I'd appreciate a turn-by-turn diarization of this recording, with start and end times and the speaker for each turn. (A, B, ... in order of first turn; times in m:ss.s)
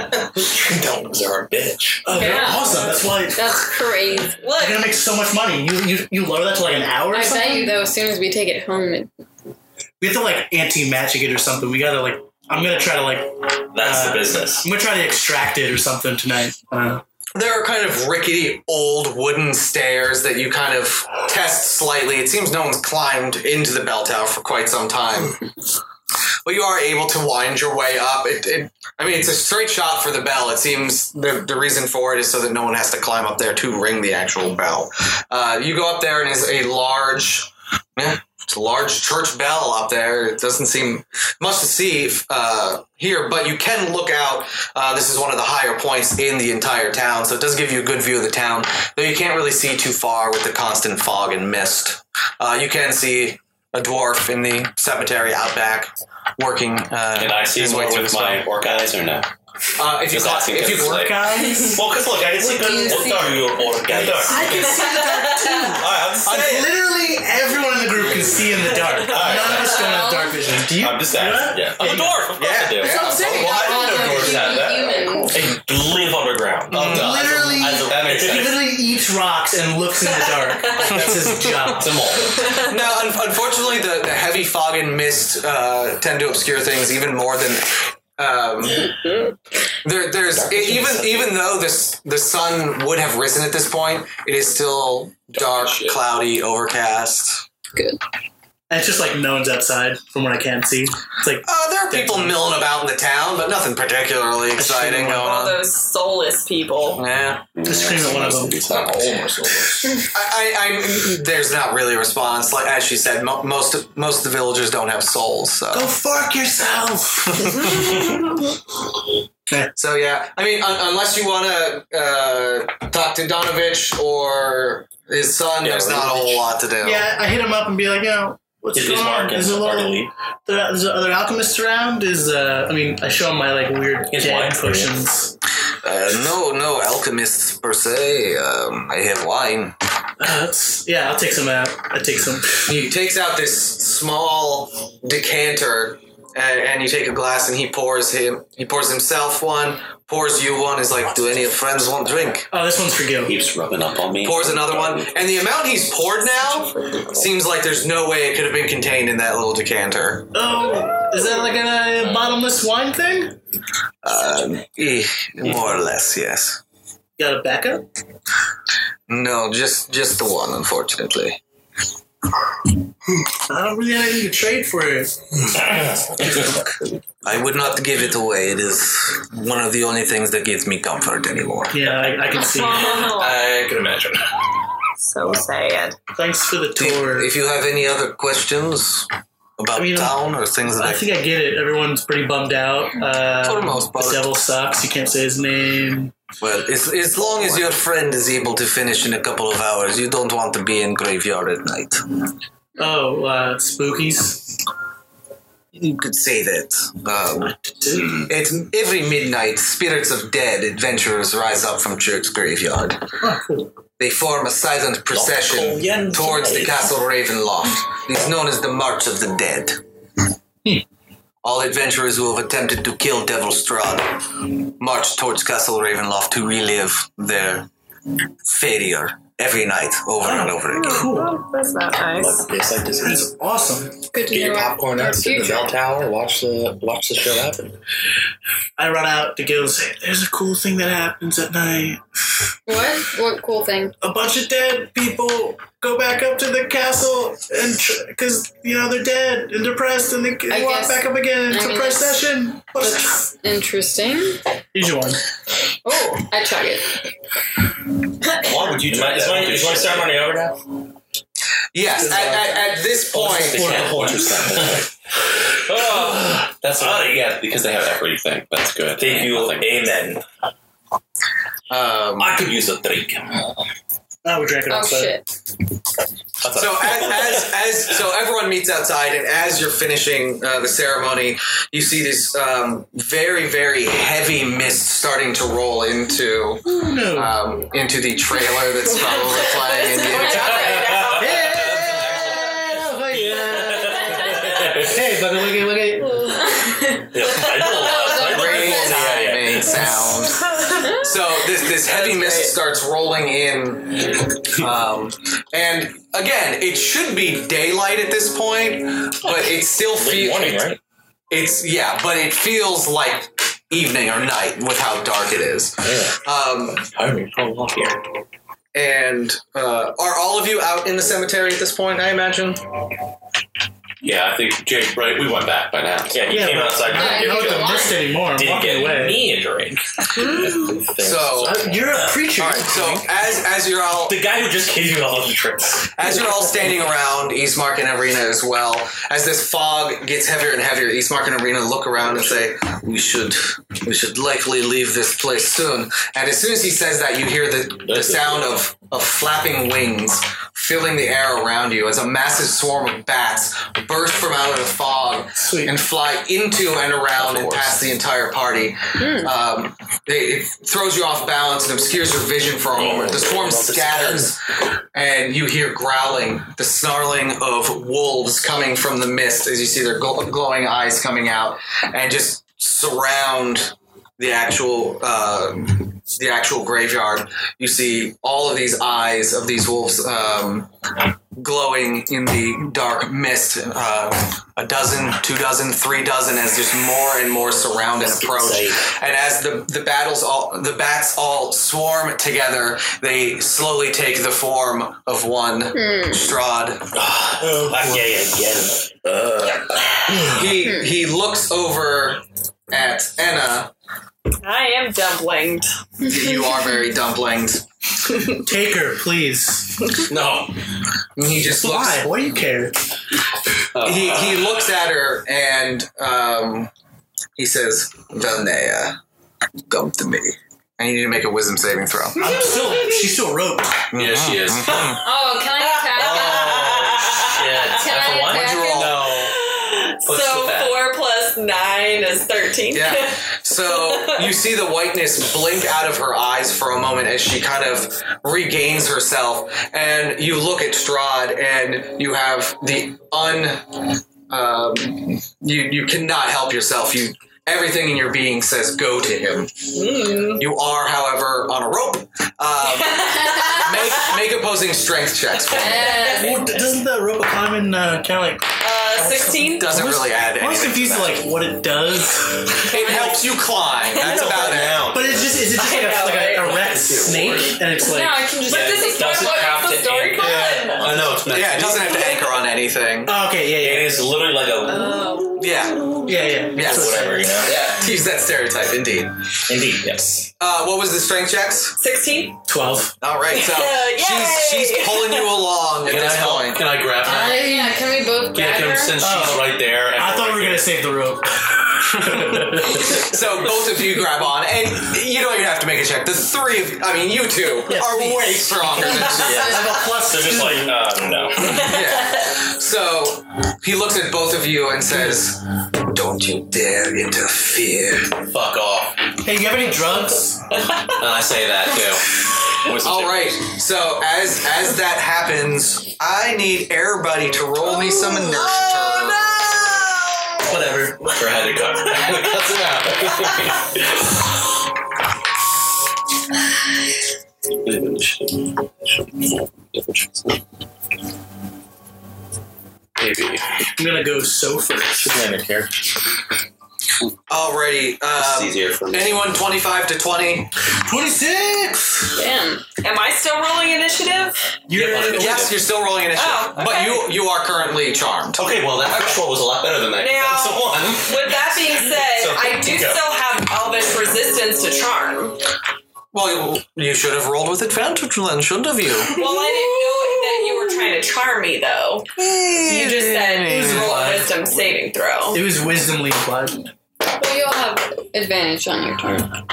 0:00.2-0:02.1 A
0:02.0-0:03.6 B
0:02.1-0:02.8 C
0:03.3-0:04.4 C
0:04.4-0:04.9 D
0:04.6-0:07.8 B
0:07.1-0:09.1 C
0:10.0-0:17.0 B
0:13.7-0:14.7 A
0:17.4-0:25.4 E
0:26.4-0:58.5 E
0:57.2-0:59.3 F
0:59.8-1:01.2 E
1:00.1-1:04.7 F
1:00.9-1:01.8 B
1:02.3-1:04.5 A
1:02.4-1:03.5 C
1:04.3-1:12.0 B
1:04.4-1:04.8 C
1:04.5-1:05.7 D
1:05.8-1:06.7 F
1:06.3-1:06.7 E
1:08.8-1:10.3 D
1:09.0-1:09.7 F
1:10.7-1:15.0 F
1:11.5-1:13.1 A
1:11.9-1:14.5 E
1:12.8-1:15.3 C
1:13.0-1:13.5 B
1:15.3-1:18.6 A
1:16.7-1:18.6 F
1:16.7-1:17.1 E
1:16.8-1:21.9 B
1:20.2-1:20.9 D
1:20.9-1:21.7 E
1:21.8-1:22.3 F
1:22.3-1:22.7 D
1:22.6-1:28.9 E
1:29.8-1:37.4 E
1:30.4-1:31.4 A
1:35.3-1:36.0 F
1:37.8-1:38.0 C
1:38.7-1:42.4 B
1:41.4-1:45.6 E
1:44.6-1:45.3 B
1:45.1-1:47.0 D
1:47.0-1:47.5 E
1:47.6-1:49.8 F
1:47.6-1:48.6 B
1:48.7-1:49.9 A
1:50.1-1:55.9 E
1:55.7-1:57.9 B
1:57.4-1:58.1 E
1:59.8-2:07.1 E
2:05.6-2:06.4 F
2:05.7-2:06.4 A
2:06.8-2:15.4 B
2:08.7-2:10.1 A
2:14.1-2:14.9 A
2:15.8-2:19.8 E
2:20.2-2:22.7 B
2:22.7-2:32.5 E
2:32.5-2:33.4 B
2:33.2-2:35.3 F
2:34.2-2:40.3 E
2:40.3-2:43.4 B
2:44.0-2:46.6 E
2:47.2-2:47.9 B
2:49.1-2:51.4 E
2:53.5-2:56.7 B
2:57.2-3:01.8 E
3:01.7-3:03.1 B
3:02.3-3:03.4 D
3:03.2-3:04.2 F
3:05.0-3:06.0 D
3:06.2-3:07.3 B
3:06.8-3:11.1 E
3:09.8-3:10.2 B
3:10.8-3:16.1 B
3:13.4-3:14.3 E
3:16.4-3:22.0 E
3:22.8-3:24.6 B
3:25.8-3:27.6 E
3:27.6-3:28.3 B
3:28.3-3:33.0 E
3:33.2-3:33.7 B
3:34.0-3:39.8 E
3:35.1-3:37.0 A
3:41.4-3:44.2 E
3:44.8-3:47.7 E
3:48.4-3:51.1 E
3:50.2-3:51.4 B
3:50.7-3:52.5 D
3:52.2-3:53.3 A
3:53.0-3:54.0 B
3:54.1-3:55.7 C
3:54.3-3:57.8 A
3:58.8-4:02.0 B
4:02.7-4:04.0 C
4:04.0-4:13.2 B
4:10.5-4:14.4 C
4:14.7-4:15.2 B
4:15.8-4:16.9 C
4:18.4-4:20.1 F
4:18.5-4:20.6 A
4:21.7-4:23.8 E
4:22.0-4:22.5 B
4:23.1-4:24.9 F
4:23.1-4:24.8 A
4:23.4-4:24.2 B
4:25.7-4:29.9 F
4:25.7-4:27.1 A
4:29.0-4:30.2 A
4:31.7-4:32.4 E
4:32.2-4:33.6 A
4:34.2-4:35.2 B
4:34.7-4:35.3 C
4:36.5-4:37.4 A
4:36.5-4:51.0 E
4:46.6-4:47.4 B
4:48.8-4:51.4 D
4:51.0-4:54.9 A
4:51.1-4:56.4 B
4:56.4-4:57.1 C
4:57.1-5:00.2 A
4:57.7-4:58.2 D
4:57.8-4:59.2 C
4:58.1-5:10.7 E
5:00.5-5:00.9 D
5:01.8-5:02.6 D
5:10.0-5:10.8 A
5:11.3-5:16.9 E
5:15.8-5:16.2 A
5:16.9-5:18.0 A
5:18.7-5:22.6 E
5:24.0-5:26.4 F
5:26.1-5:32.9 A
5:26.3-5:29.2 B
5:26.9-5:28.0 C
5:30.2-5:30.6 D
5:31.0-5:31.7 E
5:31.4-5:33.1 B
5:32.3-5:34.2 E
5:34.0-5:36.2 A
5:35.9-6:04.4 E
5:47.8-5:48.5 A
5:55.4-5:55.8 B
5:57.2-5:57.8 A
5:57.3-5:57.7 F
5:59.0-5:59.3 C
6:02.8-6:04.3 A
6:04.9-6:20.7 E
6:21.4-6:36.9 E
6:28.0-6:28.8 A
6:35.7-6:36.3 C
6:37.0-6:40.4 A
6:37.4-6:38.1 B
6:40.3-6:43.7 E
6:40.6-6:40.9 C
6:44.4-6:45.7 D
6:46.0-6:47.6 E
6:48.4-6:49.8 B
6:50.1-6:50.5 F
6:51.2-6:52.1 E
6:51.4-6:52.8 B
6:53.8-6:54.6 F
6:53.8-6:56.7 E
6:57.4-6:59.0 E
6:59.7-7:02.3 E
7:02.2-7:03.9 B
7:02.2-7:03.2 D
7:03.9-7:05.0 E
7:04.0-7:05.0 F
7:05.0-7:06.7 C
7:05.6-7:07.7 D
7:06.0-7:07.1 E
7:07.2-7:08.5 A
7:07.3-7:09.3 F
7:07.6-7:09.0 C
7:08.1-7:09.0 E
7:09.2-7:14.4 D
7:10.1-7:10.8 F
7:12.7-7:29.7 E
7:29.7-7:30.5 D
7:30.4-7:36.0 E
7:32.6-7:34.2 D
7:35.5-7:36.5 D
7:35.5-7:36.4 C
7:36.1-7:42.6 B
7:38.6-7:39.8 D
7:39.6-7:41.3 E
7:42.7-7:43.4 D
7:42.7-7:44.9 E
7:44.0-7:45.3 A
7:44.1-7:45.0 F
7:44.9-7:48.2 B
7:45.5-7:46.5 D
7:46.6-7:47.6 F
7:47.8-7:49.6 C
7:48.5-7:50.9 D
7:48.5-7:52.0 F
7:48.6-7:51.6 A
7:51.3-7:53.2 E
7:53.0-7:54.2 B
7:53.6-7:55.1 A
7:54.7-7:55.5 D
7:55.4-7:55.9 E
7:56.0-7:57.5 B
7:56.5-7:57.1 E
7:56.6-7:57.6 A
7:57.4-7:57.9 D
7:57.7-7:59.2 E
7:59.5-8:00.3 A
8:00.4-8:01.8 E
8:01.8-8:02.4 D
8:02.5-8:02.9 B
8:03.0-8:06.7 E
8:03.3-8:05.4 D
8:05.8-8:07.5 F
8:07.0-8:09.0 C
8:07.1-8:07.8 B
8:08.4-8:10.7 F
8:09.0-8:13.1 B
8:12.0-8:19.6 E
8:17.7-8:20.9 B
8:18.9-8:21.7 A
8:19.1-8:19.4 C
8:21.6-8:28.2 E
8:24.9-8:25.2 B
8:28.2-8:29.1 F
8:29.2-8:30.4 B
8:31.0-8:33.4 F
8:32.7-8:39.4 E
8:37.7-8:40.3 D
8:40.5-8:41.0 B
8:41.2-8:43.7 F
8:41.8-8:42.3 D
8:47.6-8:48.3 F
8:49.7-8:50.2 F
8:53.0-8:53.4 F
8:53.8-8:55.2 B
8:55.0-8:55.8 A
8:57.3-9:00.5 E
8:58.2-8:59.1 F
9:00.8-9:02.2 B
9:02.2-9:02.6 C
9:02.8-9:04.4 D
9:04.7-9:05.5 B
9:04.7-9:05.7 F
9:05.1-9:08.5 E
9:06.1-9:07.1 D
9:08.4-9:13.0 F
9:10.0-9:15.4 D
9:16.1-9:19.3 E
9:19.1-9:22.1 D
9:22.2-9:24.3 E
9:22.6-9:25.4 D
9:23.4-9:24.1 B
9:25.3-9:26.7 B
9:27.1-9:29.3 C